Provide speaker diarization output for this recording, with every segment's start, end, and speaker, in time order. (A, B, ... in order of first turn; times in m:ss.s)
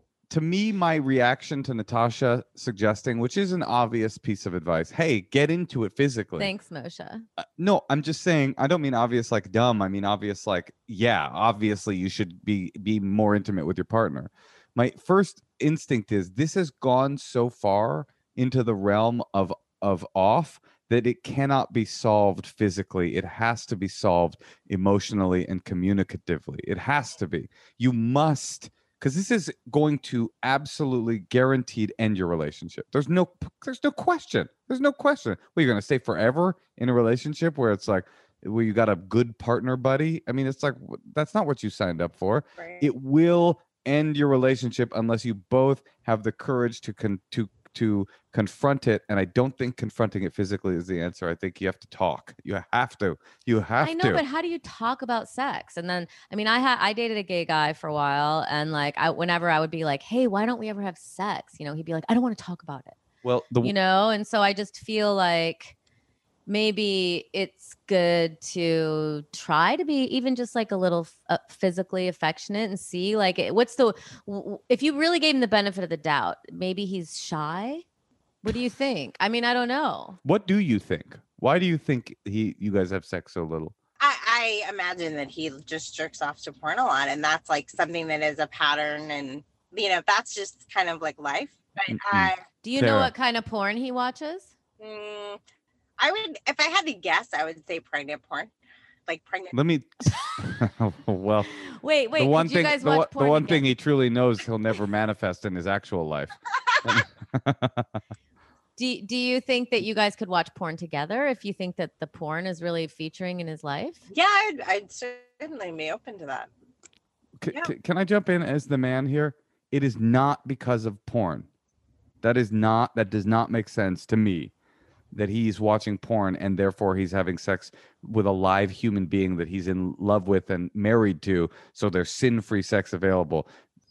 0:00.3-0:06.5 A
0:06.4-0:07.2 B
0:07.4-0:54.2 A
0:42.6-0:42.9 C
0:53.8-1:03.0 B
1:03.2-1:03.7 A
1:03.6-1:05.7 B
1:06.5-1:17.8 B
1:18.4-1:20.2 B
1:20.2-1:23.8 A
1:24.0-1:32.4 C
1:31.9-1:33.1 A
1:32.6-1:34.5 B
1:34.8-1:35.4 C
1:36.0-1:38.5 C
1:39.1-1:39.5 C
1:39.5-1:41.5 A
1:41.6-1:43.6 B
1:42.2-1:47.9 A
1:48.8-1:54.0 B
1:54.1-1:56.5 C
1:57.4-2:01.5 A
2:02.2-2:04.5 A
2:05.1-2:13.5 A